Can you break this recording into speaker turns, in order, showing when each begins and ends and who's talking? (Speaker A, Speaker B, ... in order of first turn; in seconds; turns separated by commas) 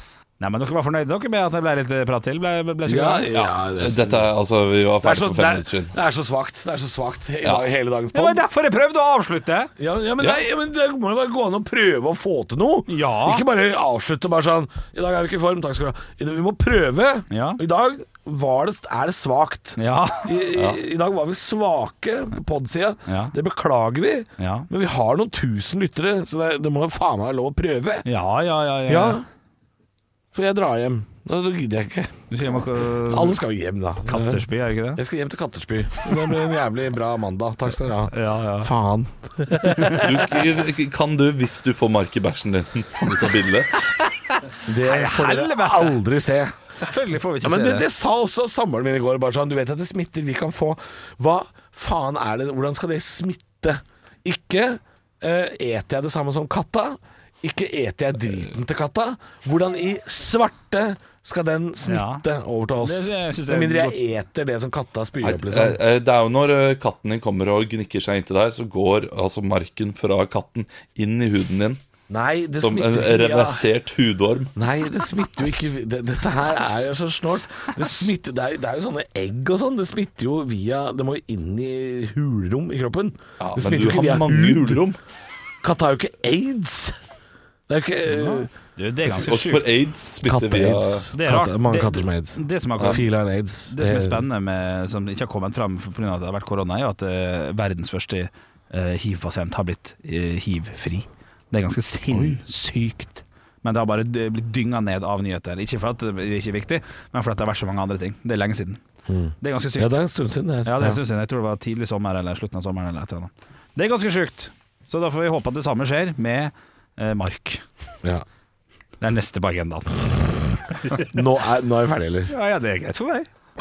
Speaker A: 0.4-3.3, Speaker B: 2.9-4.3, Speaker C: 3.3-5.9, Speaker B: 5.0-8.4, Speaker A: 8.1-9.7, Speaker B: 9.8-28.1, Speaker A: 12.9-13.4, Speaker A: 17.3-17.6, Speaker A: 19.8-20.4, Speaker C: 20.5-20.8, Speaker A: 23.1-23.3, Speaker A: 24.4-24.7, Speaker A: 28.0-29.2, Speaker B: 28.9-29.2, Speaker B: 30.3-32.1, Speaker A: 32.3-33.4, Speaker B: 33.1-40.3, Speaker A: 34.0-35.0, Speaker A: 38.1-38.7, Speaker C: 39.9-43.7, Speaker B: 44.6-46.5, Speaker A: 44.7-46.0, Speaker A: 46.8-47.8, Speaker B: 47.4-65.8, Speaker A: 61.8-62.2, Speaker A: 62.8-64.0, Speaker C: 65.2-71.8, Speaker B: 72.1-73.7, Speaker C: 72.5-74.5, Speaker B: 74.5-84.9, Speaker C: 83.4-85.0, Speaker B: 85.6-87.0, Speaker B: 87.7-88.5, Speaker A: 88.1-89.7, Speaker C: 89.0-91.1, Speaker B: 90.2-94.2, Speaker A: 91.1-93.0, Speaker A: 93.7-108.8, Speaker B: 102.1-102.4, Speaker B: 109.1-111.0, Speaker A: 109.4-110.0, Speaker A: 110.6-117.6, Speaker A: 119.0-121.2, Speaker B: 120.9-122.3, Speaker A: 122.3-123.3